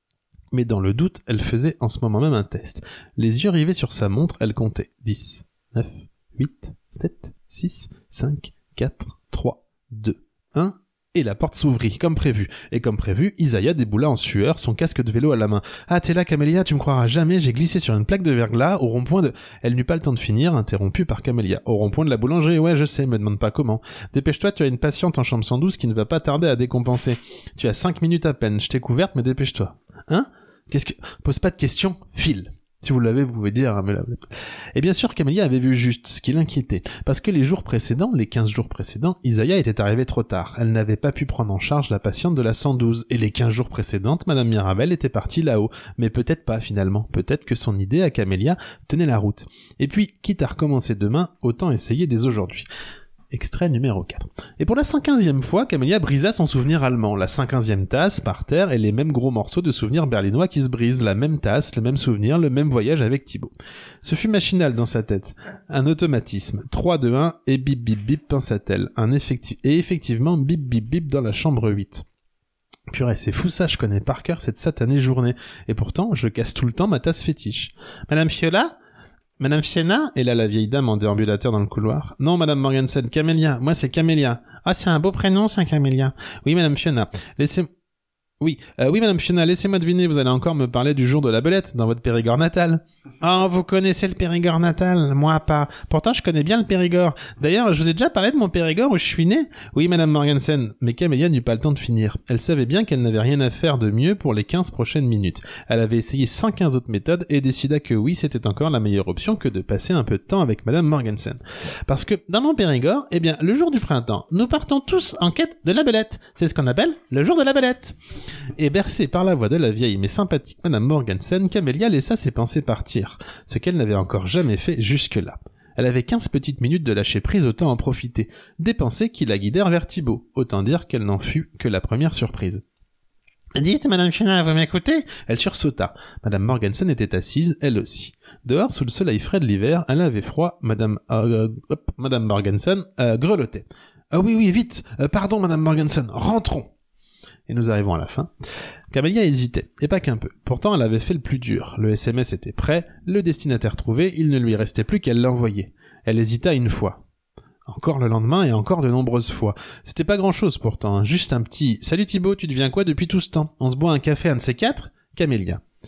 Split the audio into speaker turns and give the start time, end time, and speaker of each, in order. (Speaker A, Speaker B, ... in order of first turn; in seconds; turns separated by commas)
Speaker A: 0.5-52.7, Speaker A: 53.3-63.5, Speaker A: 64.0-72.0, Speaker A: 72.9-78.7, Speaker A: 79.4-87.7, Speaker A: 88.4-118.0, Speaker A: 118.5-132.6, Speaker A: 133.5-146.7, Speaker A: 147.5-148.3, Speaker A: 148.9-157.0, Speaker A: 157.7-165.6